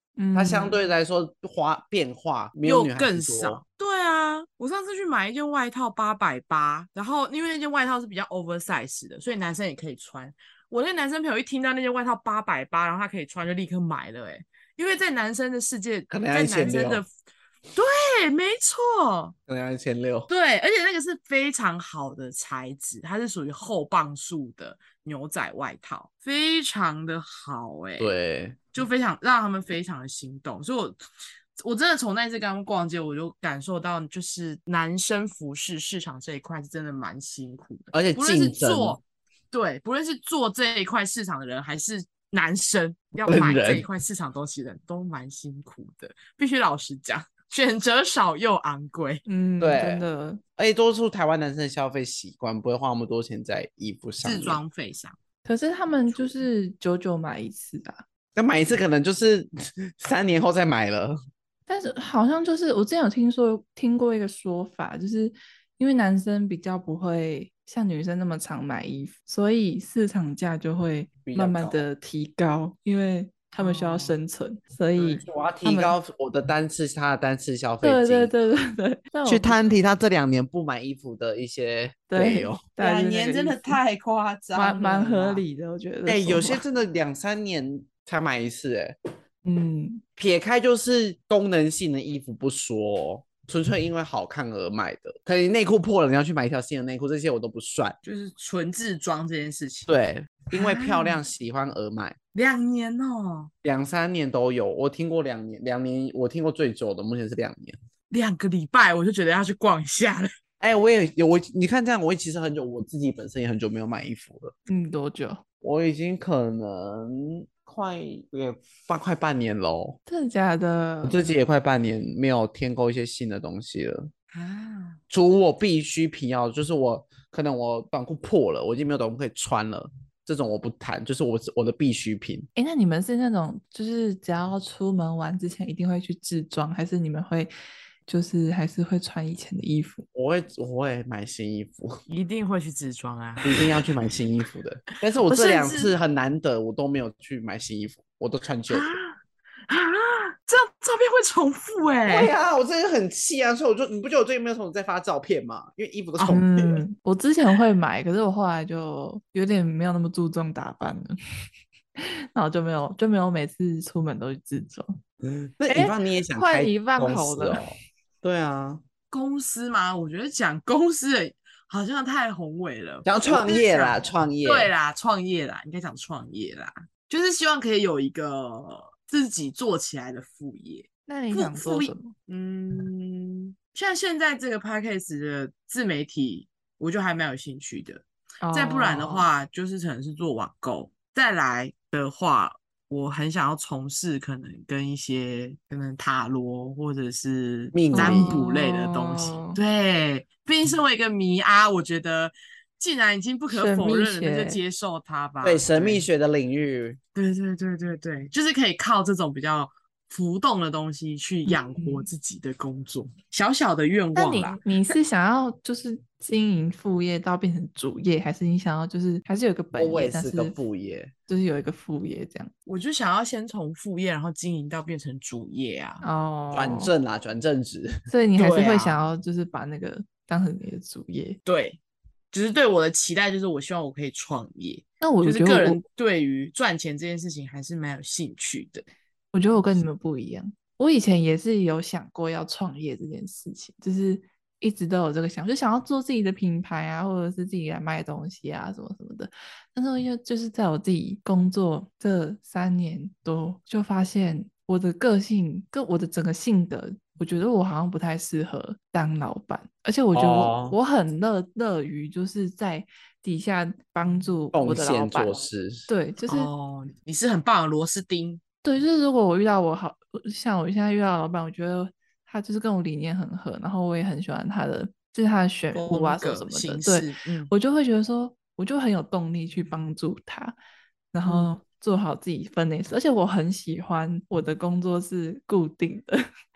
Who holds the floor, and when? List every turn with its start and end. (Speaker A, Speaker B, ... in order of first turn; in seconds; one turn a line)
Speaker A: 0.2-0.8
Speaker B: 0.3-3.6
Speaker C: 2.6-17.1
Speaker B: 16.1-17.0
Speaker C: 17.7-19.3
Speaker B: 19.5-20.3
Speaker C: 20.3-28.1
Speaker B: 28.0-28.7
Speaker C: 28.7-31.0
Speaker C: 31.6-39.0
Speaker B: 37.9-39.0
Speaker C: 39.5-49.2
Speaker B: 43.3-43.9
Speaker A: 49.2-50.4
Speaker B: 49.6-50.0
Speaker B: 50.6-54.6
Speaker C: 54.2-55.1
Speaker A: 55.4-58.0
Speaker B: 58.4-61.1
Speaker A: 61.7-76.0
Speaker B: 71.2-71.9
Speaker C: 73.6-74.2
Speaker B: 75.0-78.3
Speaker A: 77.8-79.6
Speaker B: 79.2-82.6
Speaker A: 82.1-83.8
Speaker C: 82.8-85.4
Speaker A: 84.5-86.6
Speaker B: 86.0-88.9
Speaker A: 89.4-90.0
Speaker B: 90.2-98.0
Speaker C: 98.0-99.9
Speaker B: 99.9-102.2
Speaker C: 100.5-101.2
Speaker C: 102.3-103.5
Speaker B: 103.6-107.8
Speaker C: 108.1-110.3
Speaker B: 110.6-114.5
Speaker A: 114.7-115.4
Speaker B: 115.6-120.0
Speaker A: 120.1-121.3
Speaker B: 121.0-124.1
Speaker C: 124.3-125.0
Speaker B: 125.1-132.5
Speaker A: 132.6-137.5
Speaker A: 138.1-140.0
Speaker B: 140.1-141.9
Speaker C: 142.1-143.9
Speaker B: 143.4-148.9
Speaker C: 145.3-145.9
Speaker C: 148.7-149.2
Speaker C: 149.7-152.3
Speaker B: 152.1-156.8
Speaker A: 156.2-161.1
Speaker A: 162.0-164.9
Speaker B: 165.2-168.8
Speaker A: 165.7-167.6
Speaker C: 169.1-206.0
Speaker B: 173.1-174.7
Speaker A: 181.1-182.1
Speaker A: 188.4-189.3
Speaker B: 197.7-198.4
Speaker A: 197.9-199.6
Speaker A: 203.5-204.6
Speaker B: 205.4-207.0
Speaker C: 207.1-214.6
Speaker A: 211.5-212.1
Speaker A: 214.2-220.6
Speaker B: 219.8-221.1
Speaker A: 221.3-222.5
Speaker C: 222.7-226.0
Speaker A: 226.0-226.9
Speaker B: 226.5-227.9
Speaker A: 228.1-231.4
Speaker C: 228.4-229.0
Speaker C: 231.4-231.8
Speaker C: 232.3-238.8
Speaker A: 235.0-235.8
Speaker A: 239.3-266.5
Speaker B: 260.1-260.8
Speaker B: 264.5-265.9
Speaker C: 266.3-268.4
Speaker A: 268.6-280.6
Speaker C: 275.7-277.5
Speaker A: 281.1-286.2
Speaker C: 281.2-281.5